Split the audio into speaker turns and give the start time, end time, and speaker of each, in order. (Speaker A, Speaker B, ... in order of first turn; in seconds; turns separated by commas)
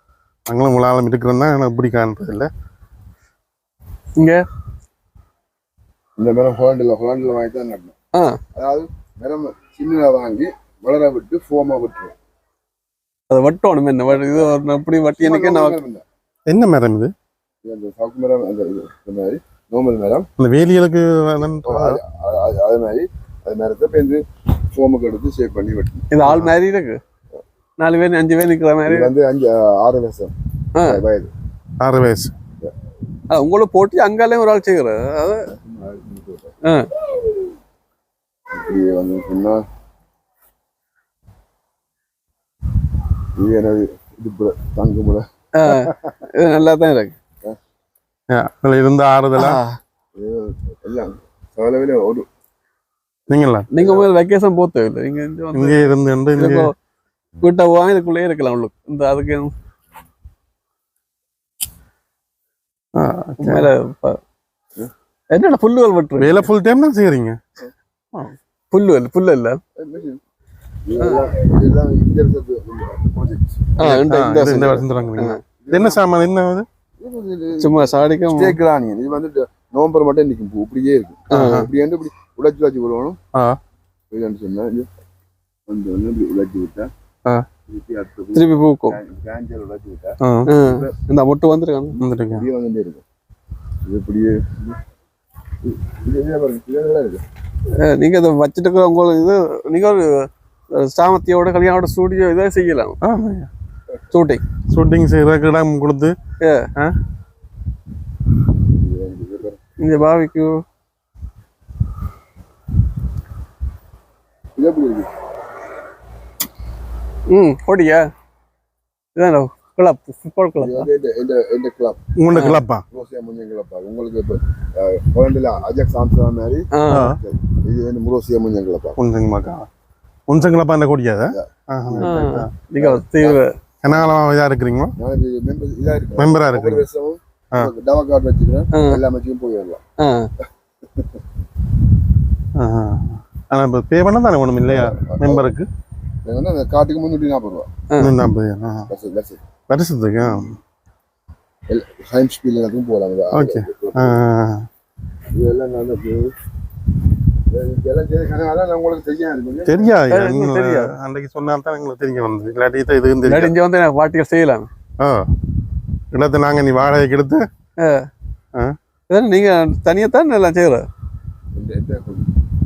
Speaker A: 0.5-2.5, Speaker B: 4.2-4.4, Speaker C: 6.2-7.9, Speaker B: 8.1-8.4, Speaker C: 8.5-12.1, Speaker B: 13.3-15.8, Speaker C: 15.2-16.0, Speaker A: 16.5-17.1, Speaker C: 17.6-20.3, Speaker A: 20.4-22.0, Speaker C: 21.6-26.1, Speaker B: 26.1-27.0, Speaker A: 26.2-26.5, Speaker B: 27.8-29.1, Speaker C: 28.9-31.3, Speaker A: 31.8-32.3, Speaker B: 33.3-35.5, Speaker C: 35.5-36.5, Speaker C: 38.5-39.6, Speaker C: 43.4-45.3, Speaker B: 45.5-47.1, Speaker A: 48.3-49.6, Speaker B: 49.3-49.8, Speaker C: 50.1-52.2, Speaker A: 53.3-53.7, Speaker B: 53.7-56.7, Speaker C: 53.8-54.1, Speaker A: 55.5-56.7, Speaker B: 57.4-59.5, Speaker A: 62.9-63.7, Speaker B: 63.4-64.2, Speaker B: 65.3-66.5, Speaker A: 66.2-67.4, Speaker B: 68.7-69.6, Speaker C: 69.8-70.2, Speaker C: 70.8-73.8, Speaker B: 73.8-75.4, Speaker A: 73.8-76.7, Speaker C: 75.6-76.0, Speaker C: 77.0-83.2, Speaker B: 77.6-78.5, Speaker B: 81.3-81.7, Speaker A: 81.3-81.7, Speaker A: 83.3-83.6, Speaker C: 84.1-84.9, Speaker C: 85.7-86.9, Speaker C: 87.7-90.9, Speaker B: 88.3-89.0, Speaker A: 90.2-90.5, Speaker B: 90.5-92.0, Speaker A: 92.0-92.5, Speaker C: 92.3-93.0, Speaker C: 93.8-94.8, Speaker C: 95.6-97.2, Speaker B: 97.7-103.0, Speaker A: 103.0-103.5, Speaker B: 104.1-104.4, Speaker A: 104.7-106.1, Speaker B: 106.4-106.7, Speaker C: 108.7-109.6, Speaker B: 109.8-110.6, Speaker C: 114.5-115.1, Speaker B: 117.3-118.1, Speaker B: 119.2-120.9, Speaker C: 120.6-122.0, Speaker A: 122.2-122.8, Speaker B: 122.3-122.6, Speaker C: 122.9-129.0, Speaker B: 126.7-127.1, Speaker A: 126.9-127.2, Speaker A: 129.0-129.7, Speaker A: 130.3-132.5, Speaker C: 131.3-133.9, Speaker B: 132.0-133.5, Speaker A: 133.8-134.9, Speaker C: 135.0-139.8, Speaker A: 136.2-136.8, Speaker B: 138.7-139.0, Speaker B: 140.0-140.3, Speaker C: 140.4-141.1, Speaker A: 142.5-145.7, Speaker C: 144.7-145.5, Speaker C: 146.2-147.7, Speaker A: 148.0-148.9, Speaker C: 148.9-149.4, Speaker A: 149.7-150.6, Speaker C: 151.7-154.2, Speaker A: 153.3-154.7, Speaker C: 155.3-156.3, Speaker C: 157.5-159.9, Speaker A: 159.7-163.5, Speaker B: 160.1-160.9, Speaker B: 163.2-164.7, Speaker A: 165.0-165.3, Speaker A: 166.1-167.4, Speaker B: 167.8-168.1, Speaker B: 169.1-170.9, Speaker C: 171.5-172.3